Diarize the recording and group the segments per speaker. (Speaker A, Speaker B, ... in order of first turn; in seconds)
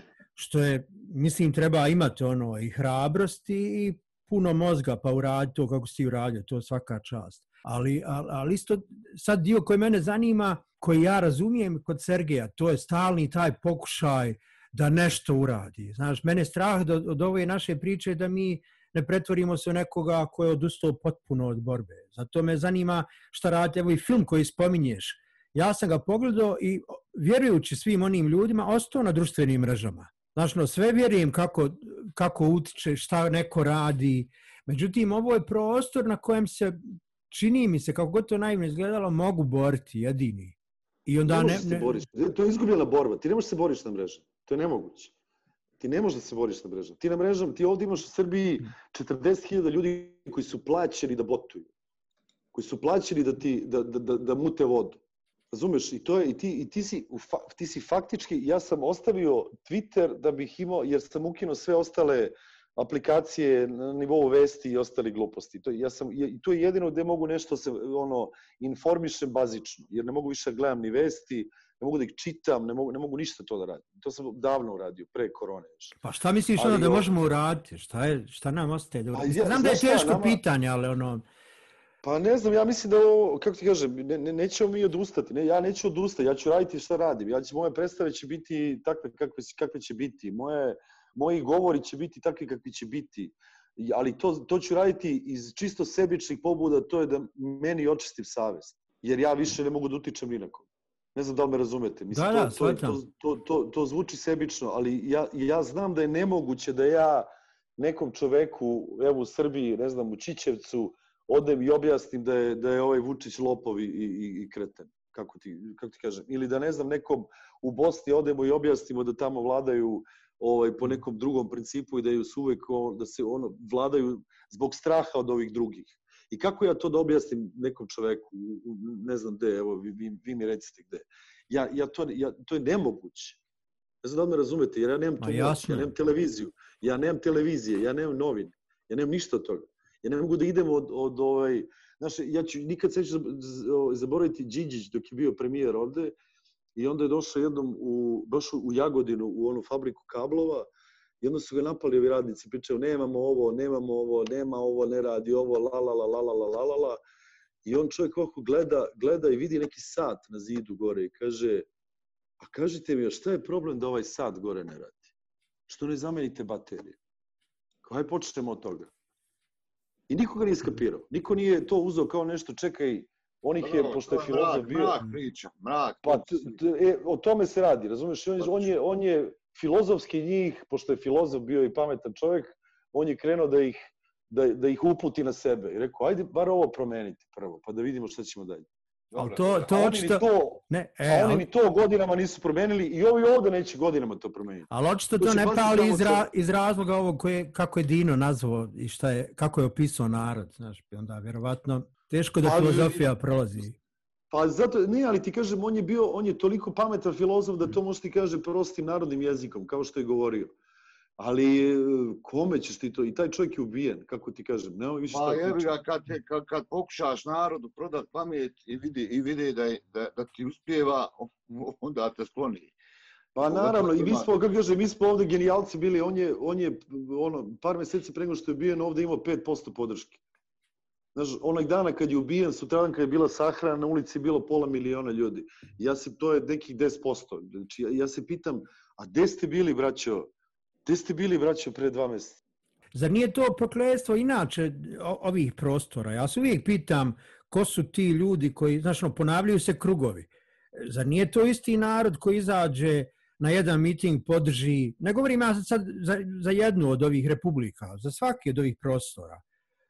Speaker A: 0.4-42.0, 76.0-81.2, 102.1-103.0, 135.2-135.9, 189.2-191.4, 194.7-203.8, 242.9-259.4
Speaker B: 41.3-45.1, 45.8-51.7, 52.5-76.0, 76.6-77.1, 79.2-80.4, 82.0-133.4, 134.0-146.2, 146.8-150.7, 151.2-157.0, 157.7-161.7, 162.4-165.1, 165.7-167.0, 167.8-168.9, 170.1-175.0, 176.1-188.7, 189.6-196.3, 202.4-203.1, 204.3-210.5, 211.2-215.7, 223.4-230.2, 231.2-240.3, 240.9-242.4
Speaker C: 173.6-176.6, 178.4-178.7, 189.1-189.7, 215.1-222.7, 223.4-224.3